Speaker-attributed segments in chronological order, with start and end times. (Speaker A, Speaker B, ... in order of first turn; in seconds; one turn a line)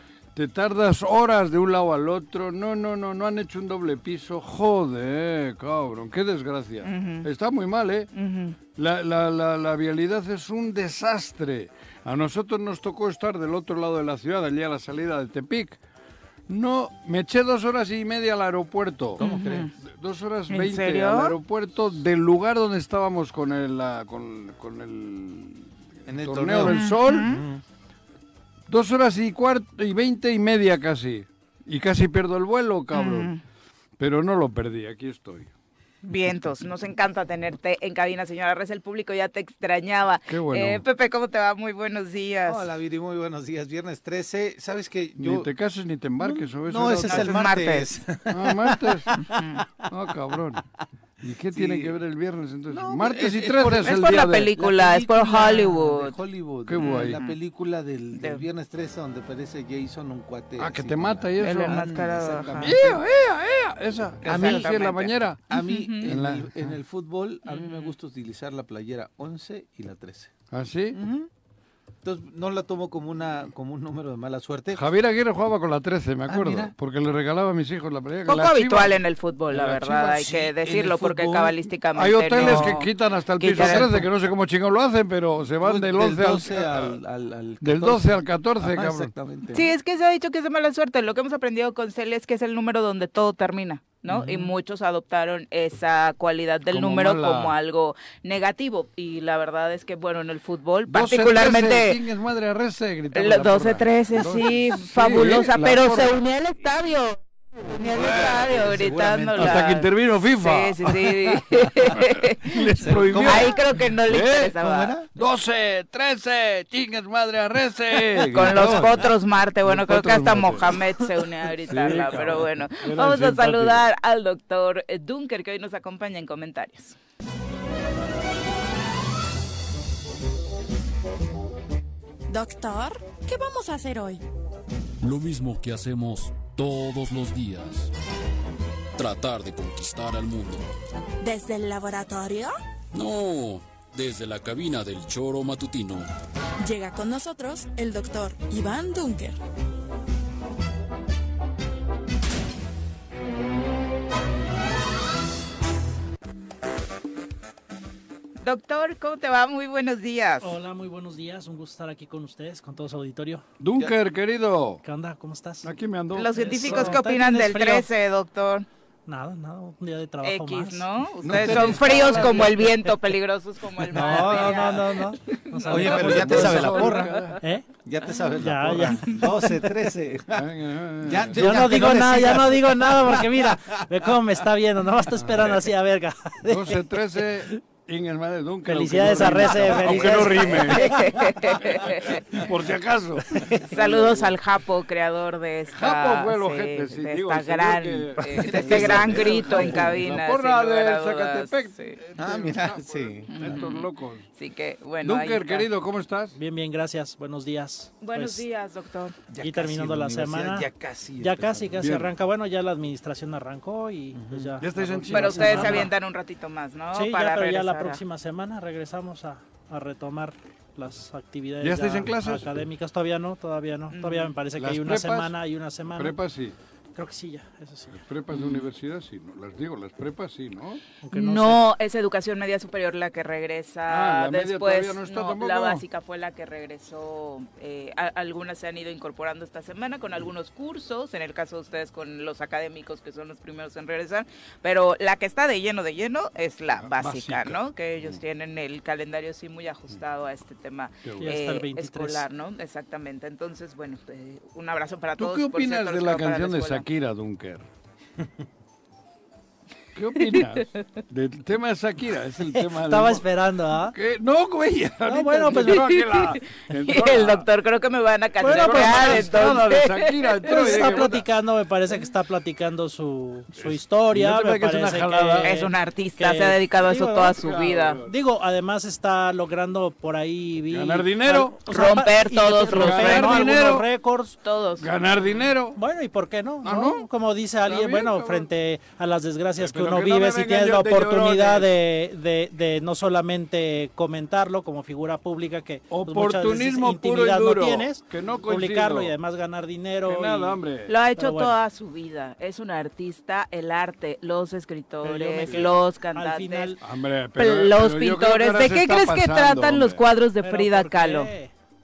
Speaker A: 0.3-8.1
Speaker B: 6.8-7.3
Speaker B: 8.1-8.6
Speaker A: 8.8-15.8
Speaker A: 16.5-19.2
Speaker C: 19.2-19.7
Speaker B: 19.2-19.7
Speaker A: 19.9-27.3
Speaker B: 20.5-21.3
Speaker C: 26.1-27.6
Speaker B: 26.6-27.4
Speaker A: 28.7-33.3
Speaker B: 32.9-33.4
Speaker A: 34.0-35.5
Speaker B: 36.0-42.6
Speaker A: 40.3-40.8
Speaker C: 42.5-45.5
Speaker A: 45.2-47.4
Speaker C: 46.2-49.6
Speaker B: 47.0-47.9
Speaker A: 48.3-49.1
Speaker B: 49.2-49.6
Speaker A: 49.9-50.6
Speaker A: 51.2-54.5
Speaker C: 51.5-51.9
Speaker C: 52.7-63.0
Speaker B: 53.8-56.2
Speaker A: 56.7-57.2
Speaker B: 56.8-57.4
Speaker B: 58.1-58.4
Speaker A: 60.6-61.8
Speaker B: 61.4-62.7
Speaker A: 62.6-65.4
Speaker C: 64.2-64.9
Speaker B: 64.3-66.1
Speaker C: 65.5-70.3
Speaker A: 66.0-66.5
Speaker B: 67.5-67.9
Speaker A: 70.5-71.0
Speaker C: 70.9-71.3
Speaker C: 72.0-74.8
Speaker A: 74.7-79.0
Speaker C: 76.3-76.7
Speaker B: 78.3-84.0
Speaker A: 79.5-79.9
Speaker C: 79.6-81.6
Speaker A: 81.9-87.0
Speaker C: 82.3-82.8
Speaker C: 83.5-84.1
Speaker C: 85.6-89.7
Speaker A: 87.6-89.1
Speaker B: 89.5-102.0
Speaker C: 94.1-94.5
Speaker A: 96.7-97.5
Speaker A: 100.9-106.1
Speaker B: 103.1-114.9
Speaker C: 107.9-109.8
Speaker A: 107.9-108.5
Speaker A: 109.3-114.5
Speaker C: 112.8-113.6
Speaker C: 114.5-115.1
Speaker A: 115.2-119.1
Speaker B: 118.3-126.9
Speaker C: 118.4-118.9
Speaker A: 119.6-123.8
Speaker D: 132.3-134.2
Speaker E: 135.0-137.9
Speaker E: 139.0-140.7
Speaker D: 141.2-142.5
Speaker E: 142.9-146.1
Speaker D: 146.6-149.3
Speaker B: 158.4-160.5
Speaker F: 160.4-163.4
Speaker A: 163.6-164.8
Speaker F: 164.8-165.7
Speaker A: 165.6-167.0
Speaker B: 166.1-168.7
Speaker F: 166.3-167.9
Speaker F: 169.1-170.8
Speaker B: 170.2-176.1
Speaker A: 171.2-172.7
Speaker F: 171.3-172.5
Speaker C: 173.9-174.6
Speaker F: 173.9-177.6
Speaker C: 175.6-180.5
Speaker A: 175.7-177.4
Speaker F: 178.3-179.0
Speaker A: 180.3-181.7
Speaker C: 181.0-183.6
Speaker F: 181.3-186.7
Speaker A: 185.2-185.6
Speaker A: 186.5-194.3
Speaker F: 188.7-190.5
Speaker B: 189.4-192.4
Speaker C: 193.4-193.8
Speaker B: 193.6-202.0
Speaker A: 195.7-204.2
Speaker C: 198.4-200.1
Speaker C: 202.2-203.6
Speaker B: 203.3-205.7
Speaker A: 205.0-206.3
Speaker F: 206.3-208.4
Speaker B: 208.0-209.2
Speaker C: 209.3-211.9
Speaker F: 209.4-210.7
Speaker F: 211.2-215.9
Speaker A: 211.8-212.1
Speaker C: 214.1-214.7
Speaker A: 214.6-215.9
Speaker B: 215.1-218.0
Speaker F: 216.9-226.2
Speaker A: 221.6-222.5
Speaker B: 223.9-224.3
Speaker A: 224.6-225.3
Speaker A: 225.9-226.6
Speaker F: 226.9-228.0
Speaker A: 228.0-230.8
Speaker B: 228.3-228.7
Speaker F: 231.0-231.6
Speaker B: 231.1-256.8
Speaker A: 233.9-235.8
Speaker A: 246.8-248.2
Speaker A: 251.0-251.3
Speaker F: 251.2-252.2
Speaker A: 255.2-257.6
Speaker A: 259.9-263.2
Speaker B: 260.2-260.6
Speaker F: 262.5-263.9
Speaker A: 263.9-267.5
Speaker F: 265.1-265.8
Speaker B: 265.5-271.1
Speaker F: 268.4-269.7
Speaker A: 268.4-271.2
Speaker F: 270.4-277.5
Speaker A: 273.6-275.5
Speaker B: 275.4-278.0
Speaker A: 277.3-278.1
Speaker F: 278.0-284.4
Speaker A: 280.7-281.6
Speaker B: 281.6-283.9
Speaker A: 282.7-283.9
Speaker B: 284.4-284.9
Speaker A: 284.8-285.8
Speaker F: 285.7-300.6
Speaker A: 286.6-287.1
Speaker A: 287.6-288.5
Speaker A: 289.6-291.7
Speaker A: 295.9-299.1
Speaker A: 300.1-300.9
Speaker B: 300.9-306.8
Speaker F: 301.2-301.6
Speaker F: 305.0-306.8
Speaker A: 305.4-305.7
Speaker A: 306.8-310.0
Speaker B: 307.4-311.3
Speaker F: 310.4-311.5